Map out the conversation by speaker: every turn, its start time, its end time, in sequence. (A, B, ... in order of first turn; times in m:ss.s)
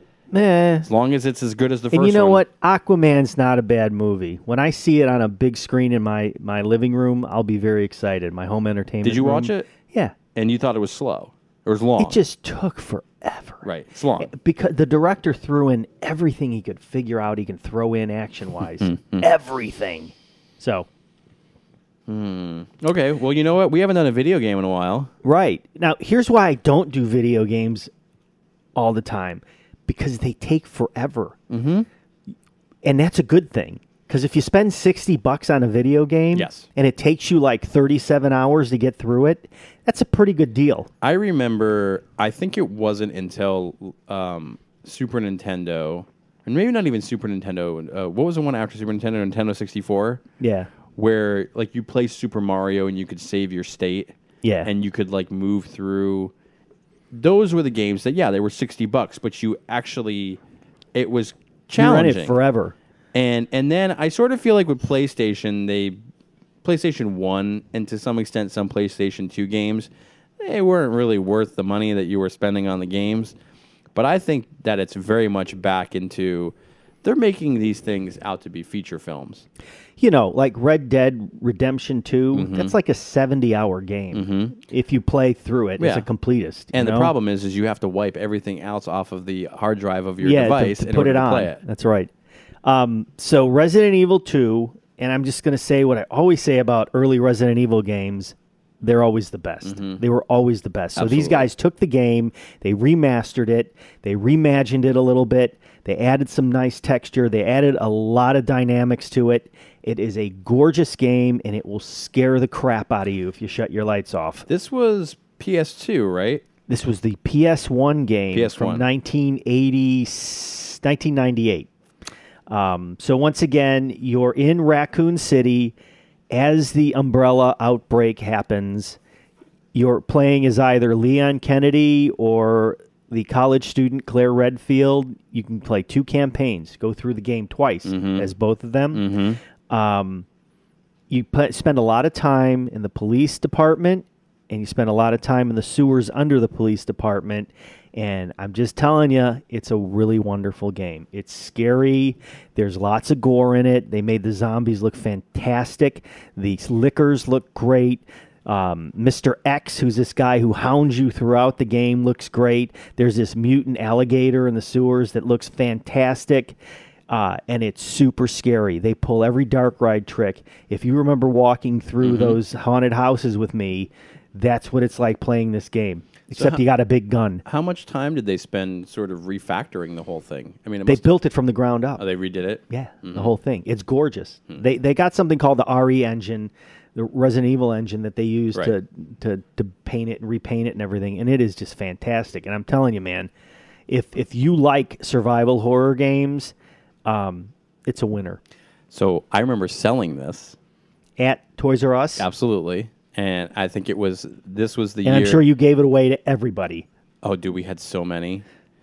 0:00.3-0:00.9 A
0:00.8-0:02.4 B
0:01.9-0:10.1 A
0:09.0-0:09.7 B
0:10.4-0:12.2 B
0:12.0-0:13.7 A
0:13.6-0:14.3 B
0:14.2-0:20.9 A
0:18.8-0:19.2 B
0:22.1-0:25.1 B
0:25.2-0:27.9 A
0:28.8-0:31.4 A
0:31.5-0:31.9 B
0:32.8-0:40.9 A
0:36.3-0:36.7 B
0:41.0-0:50.2 B
0:50.4-0:50.7 A
0:51.0-0:56.3 B
0:54.4-0:54.7 A
0:57.1-1:00.4 B
1:01.0-1:02.4 B
1:01.8-1:02.8 A
1:03.1-1:06.0 B
1:06.6-1:13.4 B
1:14.0-1:19.4 B
1:20.0-1:27.1 A
1:22.3-1:22.7 B
1:24.1-1:24.6 B
1:25.8-1:26.1 B
1:26.7-1:31.6 B
1:30.2-1:32.1 A
1:32.6-1:54.5 A
1:39.6-1:40.0 B
1:41.0-1:41.5 B
1:54.5-1:56.4 B
1:56.7-2:01.7 A
1:58.3-1:58.9 B
2:02.5-2:05.7 A
2:06.3-2:09.0 A
2:09.7-2:19.1 A
2:17.8-2:18.3 B
2:18.9-2:19.4 B
2:19.7-2:20.3 A
2:21.1-2:46.6 A
2:47.1-2:57.4 A
2:52.0-2:52.4 B
2:56.3-2:56.6 B
2:57.4-3:01.1 B
3:00.9-3:02.0 A
3:02.0-3:03.3 B
3:02.7-3:13.3 A
3:13.9-3:16.5 A
3:17.1-3:18.4 A
3:18.9-3:20.6 B
3:21.2-3:22.3 A
3:22.2-3:25.4 B
3:25.0-3:26.9 A
3:27.2-3:28.4 B